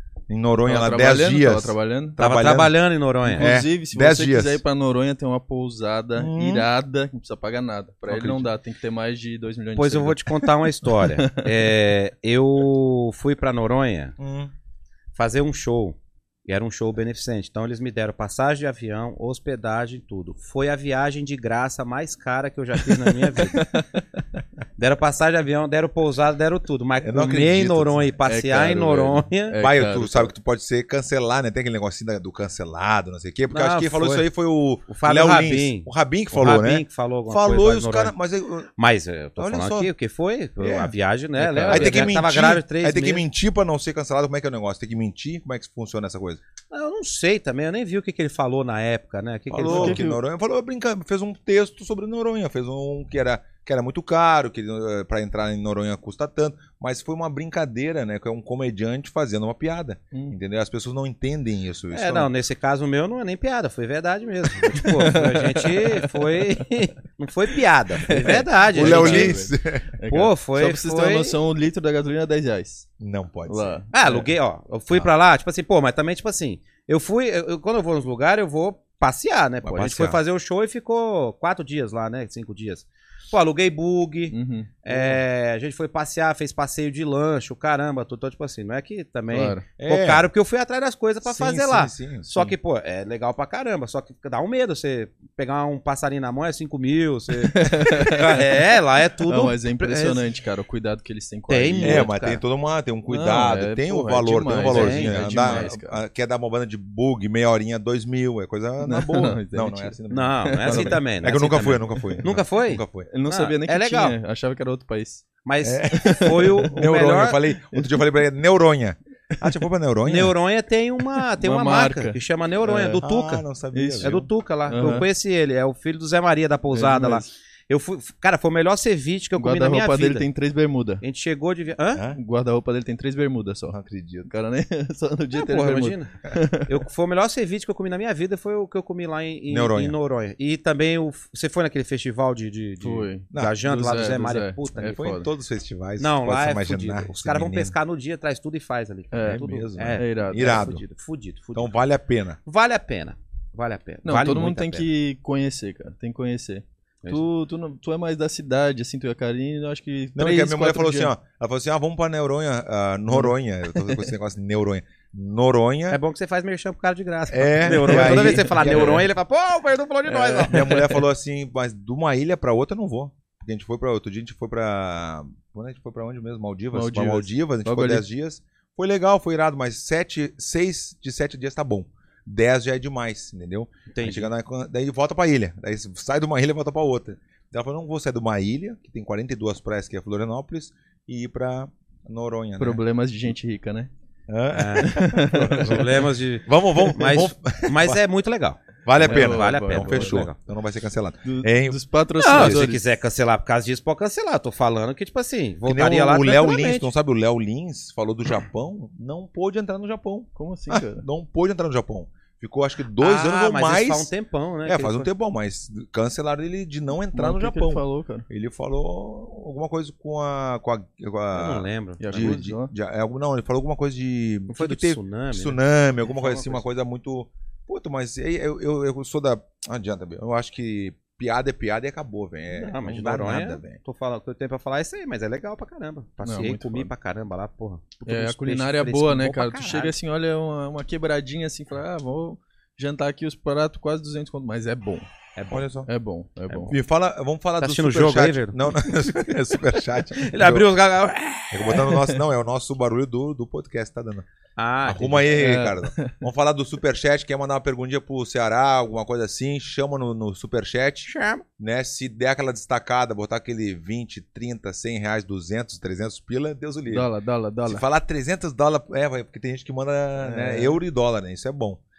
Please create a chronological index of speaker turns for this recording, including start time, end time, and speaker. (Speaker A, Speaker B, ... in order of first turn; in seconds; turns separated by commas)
Speaker A: 0.3-2.8, Speaker B: 0.6-2.2, Speaker C: 2.2-3.5, Speaker B: 3.3-11.2, Speaker A: 3.4-4.6, Speaker A: 6.2-6.7, Speaker C: 8.1-8.4, Speaker C: 9.8-14.2, Speaker A: 14.2-14.5, Speaker C: 15.1-23.7, Speaker B: 23.4-24.0, Speaker C: 24.8-29.6, Speaker A: 27.0-28.1, Speaker B: 28.3-30.3, Speaker A: 29.6-38.7, Speaker C: 33.5-34.3, Speaker C: 34.9-38.1, Speaker C: 38.8-43.2, Speaker A: 39.4-39.9, Speaker A: 40.6-40.9, Speaker B: 41.4-42.2, Speaker A: 41.7-46.4, Speaker C: 46.7-50.0, Speaker A: 49.5-62.3, Speaker B: 49.6-50.2, Speaker C: 61.9-69.4, Speaker B: 64.8-66.4, Speaker B: 68.1-72.9, Speaker A: 68.7-69.9, Speaker C: 70.1-71.3, Speaker A: 73.0-73.8, Speaker B: 73.5-74.3, Speaker C: 73.9-100.2, Speaker A: 79.6-80.2, Speaker B: 84.3-85.2, Speaker B: 89.3-89.7, Speaker A: 89.8-90.3, Speaker A: 91.2-92.3, Speaker B: 92.3-92.5, Speaker B: 97.5-98.5, Speaker B: 99.3-102.1, Speaker C: 101.5-102.4, Speaker A: 101.8-113.1, Speaker B: 103.1-106.0, Speaker C: 104.7-105.7, Speaker B: 108.8-111.0, Speaker C: 110.1-114.2, Speaker B: 113.1-115.3, Speaker C: 115.4-117.4, Speaker A: 115.6-120.3, Speaker B: 116.0-116.7, Speaker C: 120.0-123.4, Speaker B: 121.4-123.0, Speaker A: 123.0-124.2, Speaker B: 123.7-125.1, Speaker C: 124.0-130.2, Speaker B: 126.7-127.3, Speaker B: 129.4-131.0, Speaker C: 131.0-132.0, Speaker B: 132.2-136.7, Speaker A: 133.7-134.3, Speaker C: 135.3-136.1, Speaker C: 136.6-144.9, Speaker A: 139.5-139.9, Speaker B: 142.8-145.3, Speaker A: 143.3-143.6, Speaker A: 144.8-147.8, Speaker C: 146.0-151.8, Speaker B: 149.1-150.7, Speaker A: 149.2-150.8, Speaker A: 151.5-152.4, Speaker C: 152.4-154.8, Speaker B: 154.0-161.1, Speaker A: 160.2-166.0, Speaker C: 165.9-170.8, Speaker A: 167.3-169.1, Speaker B: 167.6-169.0, Speaker B: 170.1-170.9, Speaker A: 170.5-192.8, Speaker B: 176.7-178.0, Speaker C: 183.9-184.3, Speaker B: 192.6-193.9, Speaker A: 194.3-195.8, Speaker C: 194.5-200.3, Speaker B: 194.8-195.9, Speaker A: 196.5-198.0, Speaker A: 198.8-201.8, Speaker B: 199.0-200.3, Speaker B: 201.2-202.8, Speaker C: 202.2-206.9, Speaker A: 202.3-202.7, Speaker A: 205.7-214.1, Speaker B: 210.3-211.0, Speaker C: 213.0-215.1, Speaker A: 214.7-233.8, Speaker B: 217.1-218.3, Speaker C: 221.3-222.4, Speaker B: 222.0-222.7, Speaker C: 224.5-226.7, Speaker C: 232.5-239.9, Speaker B: 236.2-236.9, Speaker B: 238.1-245.1, Speaker C: 245.3-245.7, Speaker A: 245.5-245.9, Speaker B: 245.8-246.7, Speaker A: 246.7-250.7, Speaker C: 247.6-248.9, Speaker C: 250.2-252.2, Speaker A: 251.5-254.3, Speaker C: 254.6-255.4, Speaker A: 254.8-261.1, Speaker B: 255.3-256.2, Speaker C: 261.1-261.4, Speaker A: 261.6-267.1, Speaker B: 266.9-267.8, Speaker A: 267.6-271.8, Speaker B: 270.2-270.8